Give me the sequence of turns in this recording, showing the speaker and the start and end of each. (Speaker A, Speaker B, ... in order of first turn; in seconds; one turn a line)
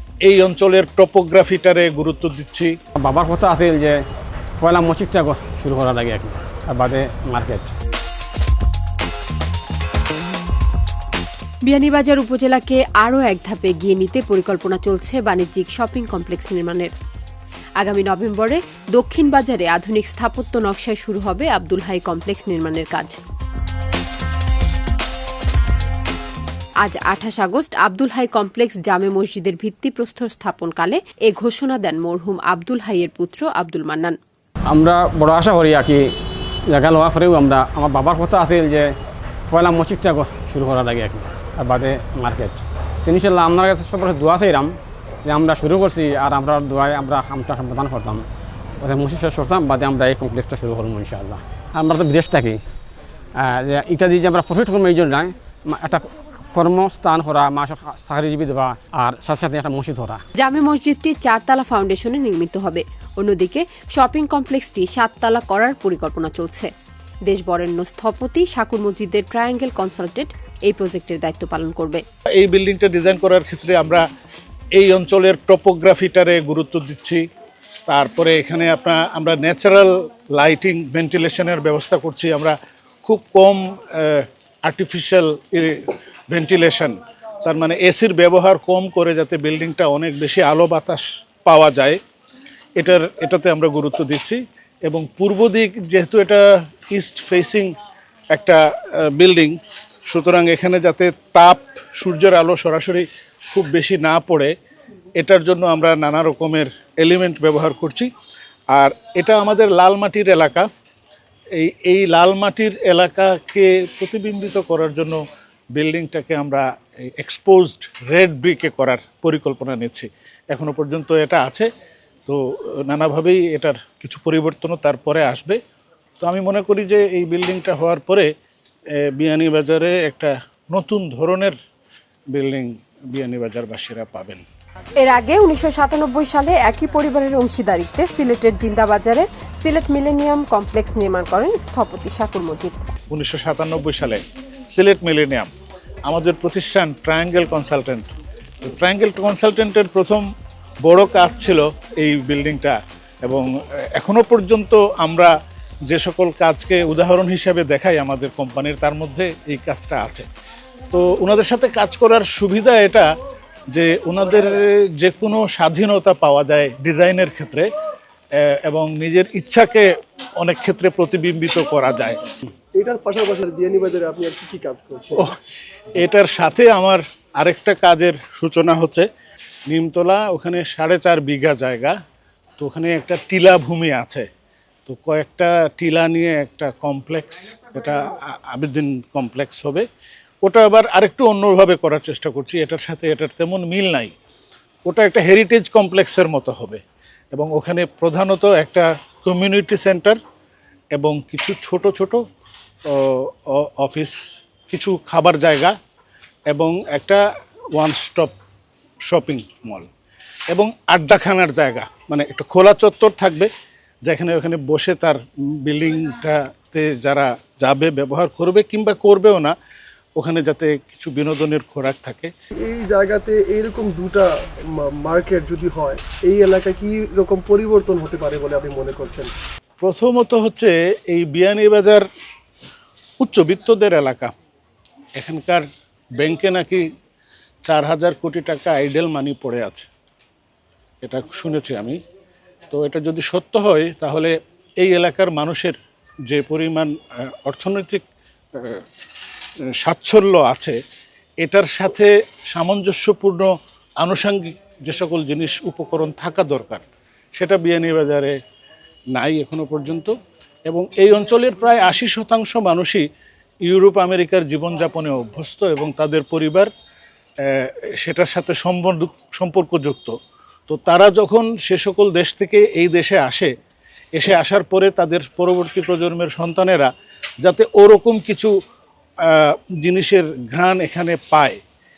Speaker A: 0.2-2.7
Speaker B: 3.0-4.0
Speaker B: 4.6-7.7
Speaker C: 11.7-16.9
Speaker C: 17.8-23.2
Speaker C: 26.8-34.1
Speaker B: 34.7-36.1
Speaker B: 36.7-38.9
Speaker B: 39.5-48.2
Speaker B: 48.8-52.6
Speaker B: 53.4-60.2
Speaker C: 60.4-66.7
Speaker C: 67.3-72.0
Speaker A: 72.3-74.0
Speaker A: 74.7-77.2
Speaker A: 77.9-92.0
Speaker A: 92.8-97.8
Speaker A: 98.3-104.5
Speaker A: 105.2-108.1
Speaker A: 108.7-110.7
Speaker A: 111.5-115.2
Speaker A: 115.7-121.7
Speaker A: 122.2-125.6
Speaker A: 126.2-128.3
Speaker A: 129.0-131.6
Speaker A: 132.3-134.4
Speaker C: 135.0-142.9
Speaker A: 143.1-144.2
Speaker A: 144.7-145.5
Speaker A: 146.1-148.1
Speaker A: 148.6-150.2
Speaker A: 150.8-155.3
Speaker A: 155.9-160.2
Speaker A: 160.9-163.1
Speaker A: 163.7-167.7
Speaker A: 168.4-169.9
Speaker A: 170.4-172.2
Speaker D: 172.7-175.3
Speaker A: 176.0-179.1
Speaker A: 179.7-181.9
Speaker A: 182.6-184.3
Speaker A: 184.8-189.8
Speaker A: 190.4-194.1
Speaker A: 194.9-200.2
Speaker A: 200.9-202.2
Speaker A: 202.9-205.7
Speaker A: 206.5-208.3
Speaker A: 209.1-209.9
Speaker A: 210.5-213.5
Speaker A: 214.0-219.5
Speaker A: 220.2-222.3
Speaker D: 222.6-229.3
Speaker A: 229.8-232.0
Speaker A: 233.2-234.3
Speaker A: 235.2-235.7
Speaker A: 236.2-236.8
Speaker A: 237.7-239.9
Speaker A: 241.0-242.0
Speaker A: 242.7-248.0
Speaker A: 248.5-248.8
Speaker A: 249.8-250.8
Speaker A: 251.4-258.4
Speaker A: 259.1-260.1
Speaker A: 260.7-263.0
Speaker A: 263.6-266.7
Speaker A: 267.4-270.1
Speaker A: 270.7-273.5
Speaker A: 274.1-276.9
Speaker A: 277.4-278.5
Speaker A: 279.3-281.6